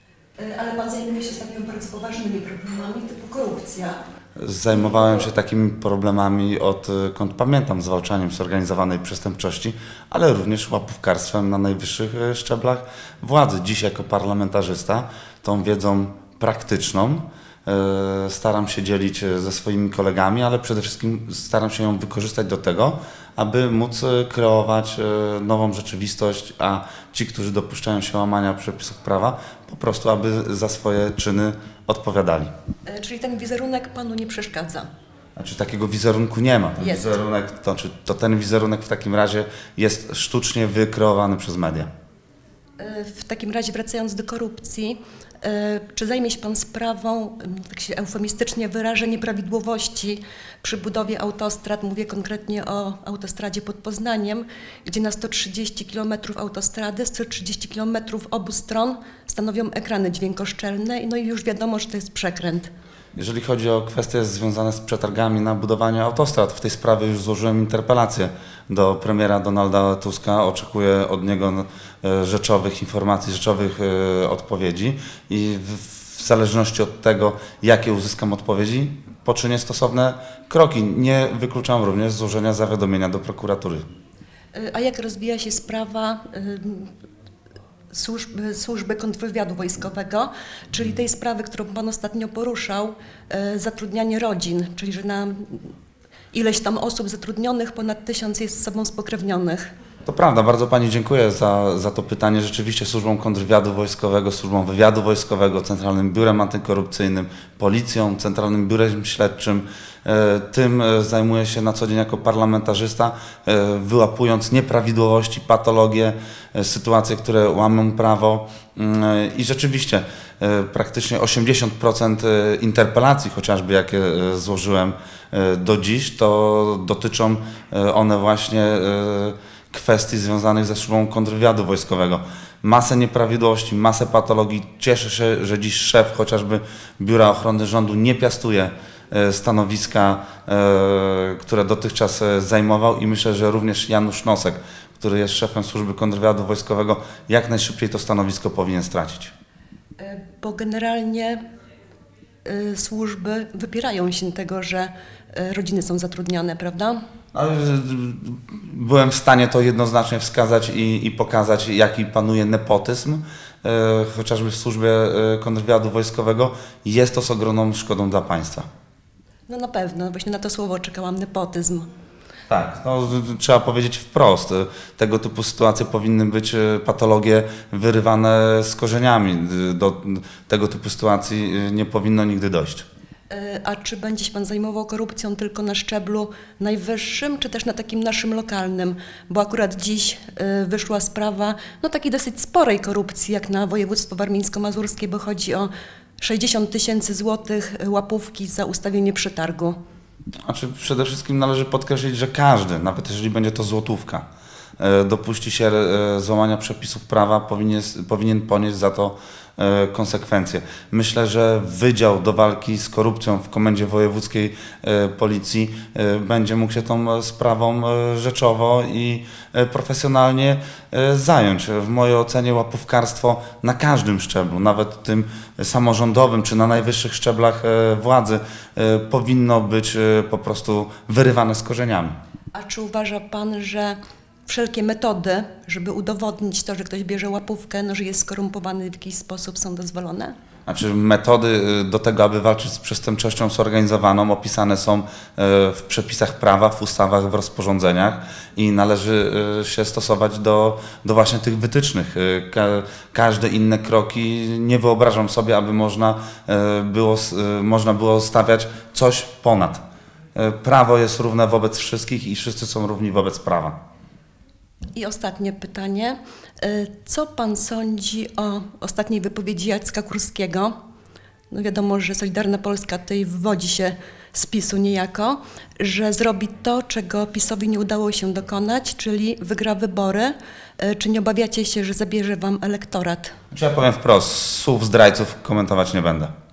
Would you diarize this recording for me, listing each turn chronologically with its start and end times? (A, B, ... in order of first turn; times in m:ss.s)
0:00.4-0:04.0 A
0:04.4-0:32.5 B
0:32.8-0:34.9 A
0:35.4-0:41.9 B
0:36.8-0:37.2 A
0:42.8-1:02.7 A
1:03.2-1:23.8 B
1:24.5-1:26.9 A
1:27.9-1:35.7 A
1:36.3-1:39.6 A
1:40.0-2:29.3 B
2:30.0-2:31.4 A
2:32.4-2:37.0 A
2:37.3-2:48.6 B
2:49.5-2:51.9 A
2:52.5-3:02.8 B
3:03.3-3:19.8 A
3:20.4-3:24.3 B
3:24.8-3:52.1 B
3:52.5-4:00.3 A
4:00.7-4:19.8 B
4:20.3-4:23.8 B
4:25.0-4:30.7 A
4:31.5-4:43.3 A
4:43.5-4:46.3 B